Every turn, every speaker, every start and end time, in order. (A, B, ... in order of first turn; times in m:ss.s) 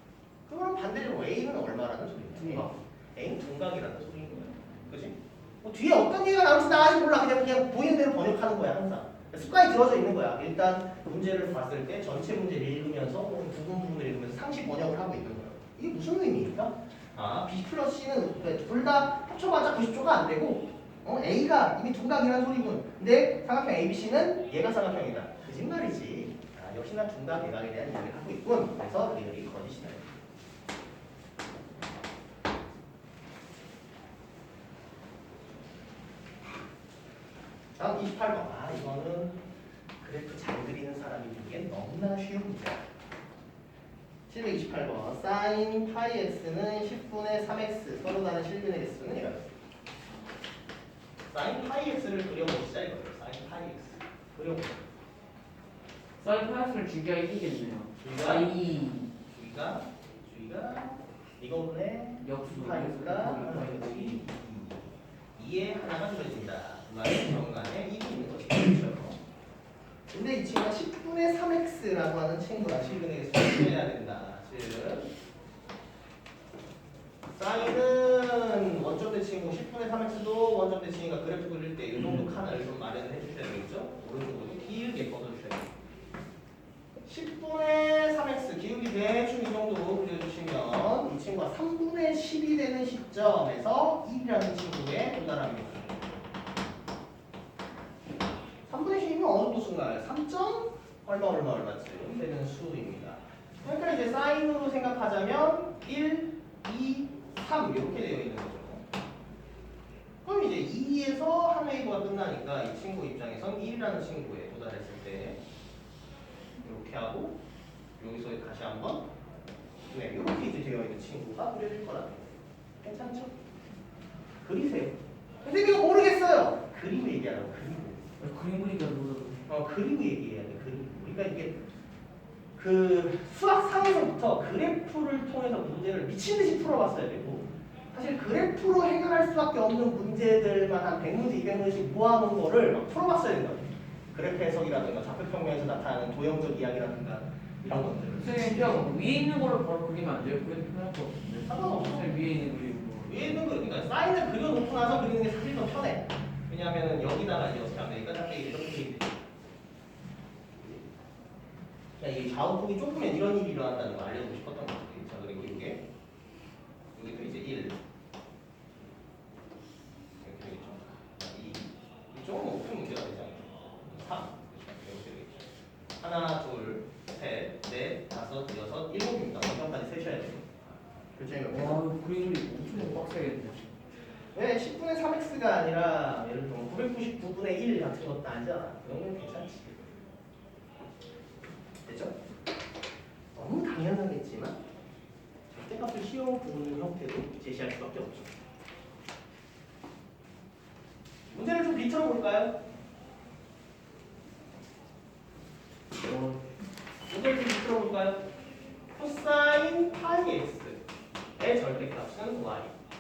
0:00.5-0:30.1 A
0:02.4-0:02.7 B
0:37.8-0:39.4 A
0:40.0-0:42.8 A
0:44.3-0:49.6 A
0:51.3-0:54.8 A
0:56.2-0:59.1 B
0:58.0-0:58.5 A
0:59.3-1:09.2 A
1:02.2-1:04.3 B
1:10.1-1:15.1 A
1:17.3-1:25.7 A
1:27.0-1:36.0 A
1:38.7-1:48.8 A
1:50.2-1:55.4 A
1:56.6-1:57.4 A
1:58.0-1:59.1 A
1:59.9-2:03.3 A
2:04.4-2:08.0 A
2:08.2-2:09.5 B
2:09.5-2:11.6 A
2:12.6-2:28.9 A
2:28.2-2:33.4 B
2:31.4-2:32.2 A
2:33.0-2:39.3 A
2:42.0-2:45.8 A
2:47.0-2:47.8 A
2:50.2-3:00.5 A
3:01.2-3:01.8 A
3:01.5-3:03.7 B
3:02.6-3:03.2 A
3:04.3-3:09.9 A
3:11.8-3:12.2 A
3:13.3-3:14.6 A
3:15.5-3:18.3 A
3:21.3-3:22.6 A
3:26.0-3:26.4 B
3:27.1-3:28.2 A
3:29.0-3:30.8 A
3:31.4-3:32.7 A